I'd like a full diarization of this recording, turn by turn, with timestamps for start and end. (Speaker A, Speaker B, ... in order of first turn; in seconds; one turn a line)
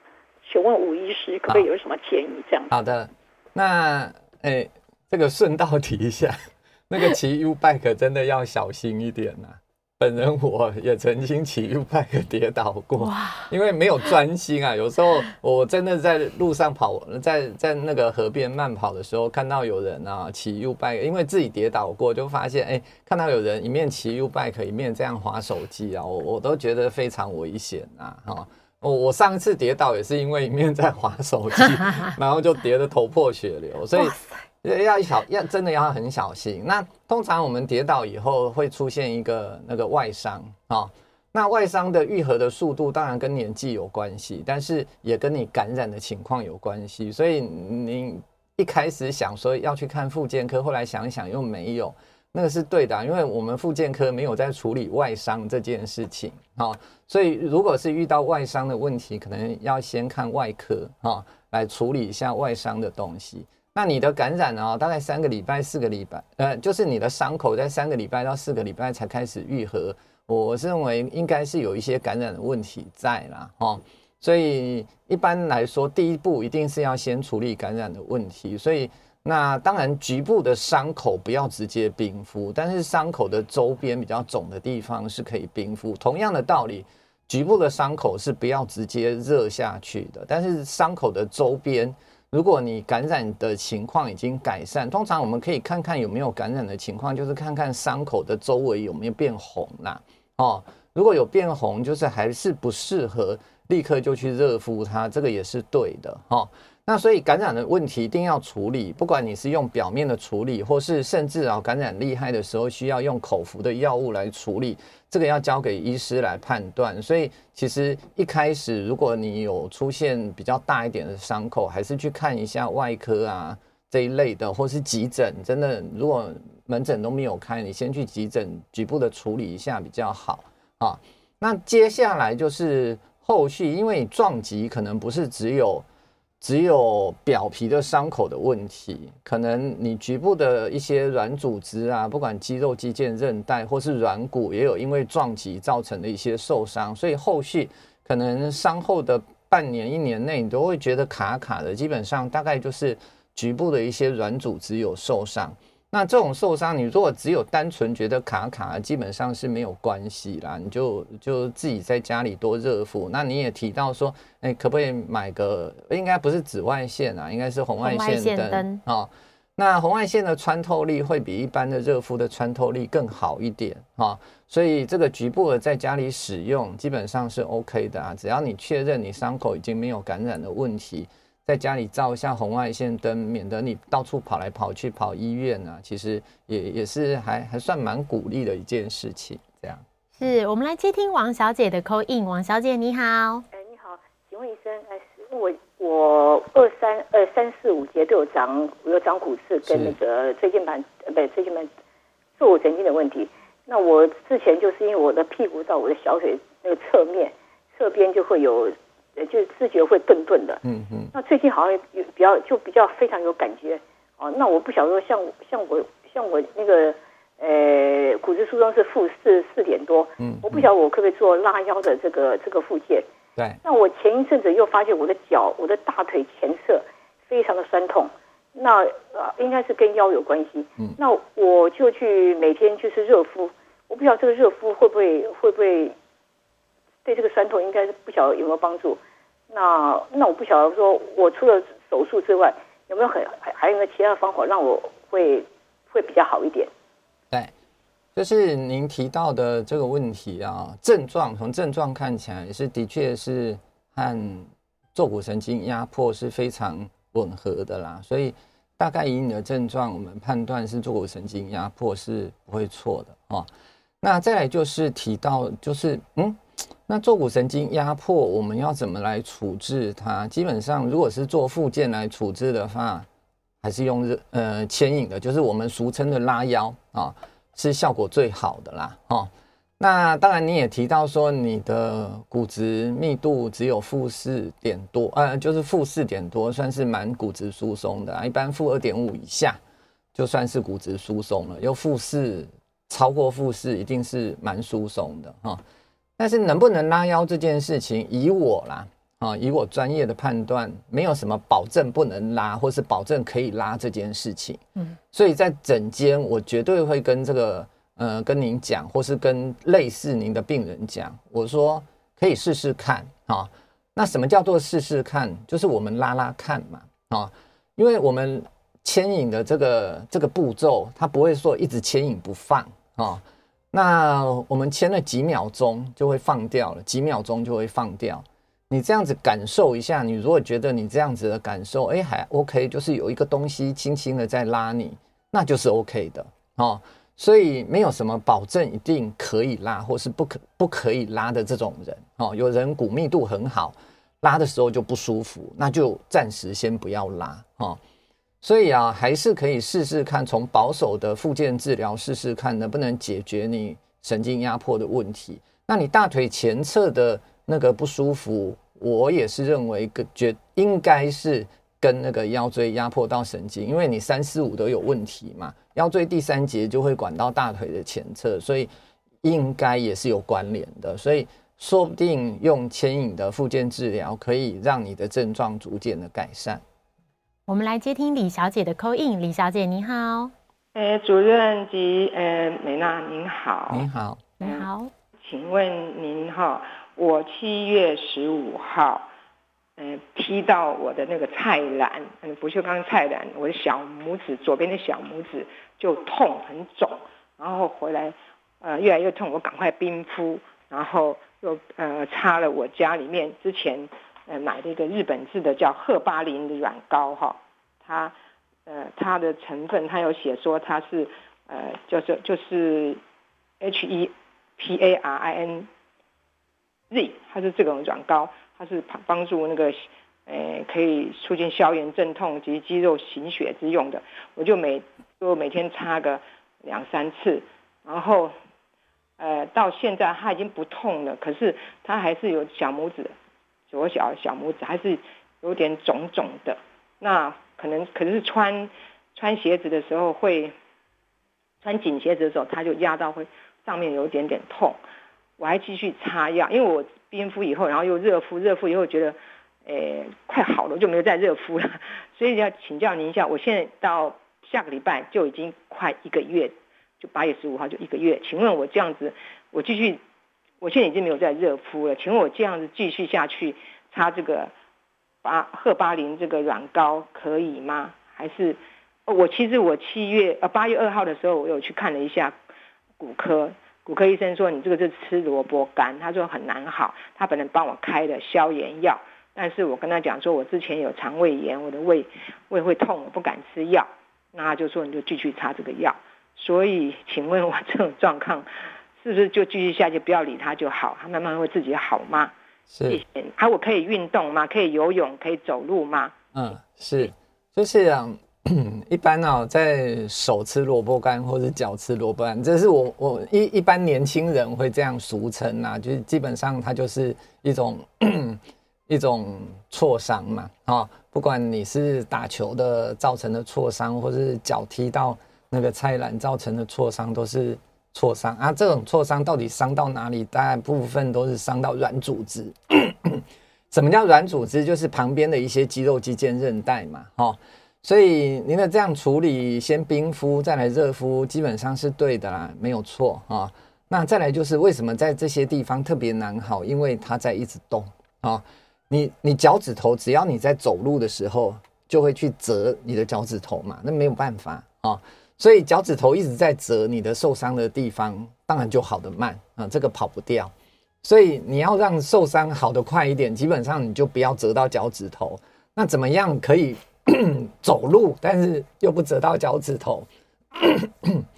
Speaker A: 0.4-2.7
Speaker B: 2.7-135.8
Speaker C: 13.0-13.4
Speaker C: 33.9-34.3
Speaker B: 136.4-189.8
Speaker C: 167.8-168.8
Speaker C: 190.2-193.4
Speaker D: 193.5-201.7
Speaker B: 199.7-199.9
Speaker D: 202.4-210.6
Speaker B: 210.6-211.1
Speaker D: 211.1-223.1
Speaker B: 220.2-220.7
Speaker D: 223.6-235.9
Speaker D: 237.0-246.7
Speaker B: 248.2-263.5
Speaker B: 264.0-273.1
Speaker B: 273.6-289.6
Speaker B: 290.1-295.6
Speaker B: 296.2-347.8
Speaker B: 348.4-368.7
Speaker B: 369.2-376.6
Speaker C: 377.5-380.3
Speaker E: 380.7-383.9
Speaker B: 383.7-384.2
Speaker C: 384.4-384.9
Speaker E: 385.2-389.1
Speaker E: 389.8-408.1
Speaker E: 408.6-413.0
Speaker E: 413.6-415.7
Speaker E: 416.9-428.3
Speaker E: 429.2-433.1
Speaker E: 433.7-440.5
Speaker E: 441.6-444.8
Speaker E: 445.4-460.0
Speaker E: 460.6-464.5
Speaker E: 465.2-472.3
Speaker E: 473.0-488.5
Speaker E: 489.0-492.3
Speaker B: 492.7-493.0
Speaker E: 492.9-496.1
Speaker B: 496.3-561.2